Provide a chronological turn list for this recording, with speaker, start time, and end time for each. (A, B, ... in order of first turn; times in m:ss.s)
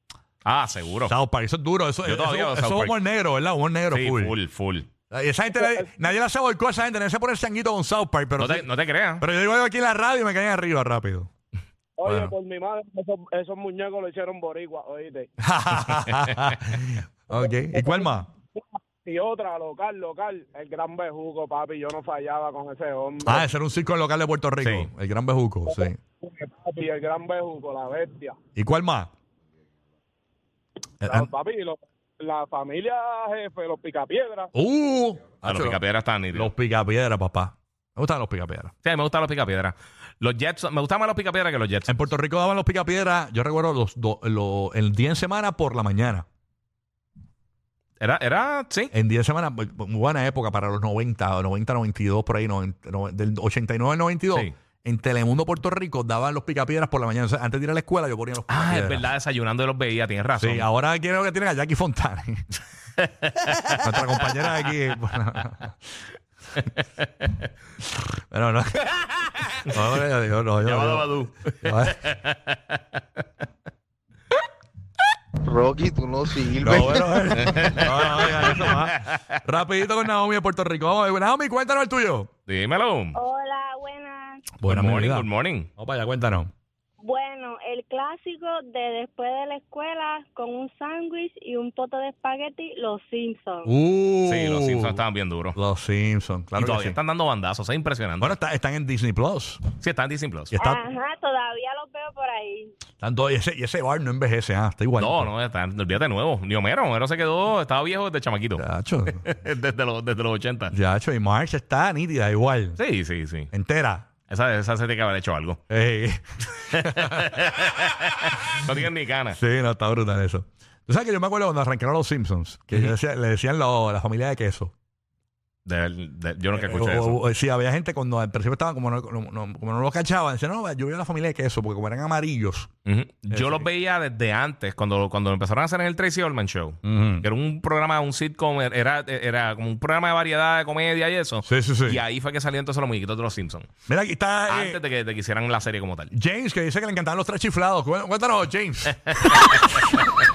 0:00.4-0:01.1 A
0:01.0-0:04.3 B
0:02.0-0:03.0 A
0:03.9-0:04.9 A
0:05.1-0:11.3 B
0:05.6-0:05.9 C
0:08.4-0:09.2 A
0:12.0-0:15.3 C
0:12.0-0:12.3 B
0:15.4-0:18.3 B
0:17.7-0:18.0 C
0:19.0-0:23.4 C
0:23.2-0:26.0 B
0:24.6-0:24.9 A
0:25.7-0:28.3 C
0:28.6-0:29.1 B
0:31.0-0:31.3 B
0:31.0-0:34.5 C
0:34.5-0:35.8 B
0:35.4-0:36.5 A
0:36.3-0:38.7 B
0:38.8-0:42.0 A
0:41.9-0:46.2 B
0:48.0-0:48.9 A
0:48.9-0:59.1 B
0:58.5-1:00.7 A
1:00.4-1:02.4 B
1:03.0-1:04.4 A
1:03.8-1:05.7 B
1:06.6-1:07.4 A
1:07.8-1:12.0 B
1:10.6-1:13.2 A
1:15.4-1:17.5 D
1:16.6-1:22.3 B
1:17.3-1:19.4 A
1:22.5-1:23.2 A
1:23.1-1:24.5 E
1:24.6-1:26.5 B
1:24.6-1:25.7 A
1:27.0-1:33.7 E
1:33.6-1:35.0 B
1:34.2-1:35.6 A
1:35.5-1:37.0 B
1:36.6-1:38.3 A
1:38.2-1:39.6 B
1:39.8-1:40.5 A
1:40.5-1:40.8 B
1:40.6-1:42.7 E
1:43.0-1:45.3 B
1:45.0-1:50.7 A
1:48.6-1:49.2 B
1:50.7-1:52.8 B
1:52.8-1:53.5 A
1:53.5-1:54.0 B
1:54.3-1:55.6 A
1:55.7-1:57.3 B
1:56.6-1:59.4 A
1:59.3-2:04.7 B
2:05.6-2:07.2 A
2:06.5-2:12.7 B
2:12.8-2:23.7 A
2:13.3-2:13.6 B
2:16.8-2:17.3 B
2:21.4-2:22.0 B
2:23.9-2:24.8 B
2:24.5-2:26.1 A
2:26.1-2:29.9 B
2:29.4-2:29.8 A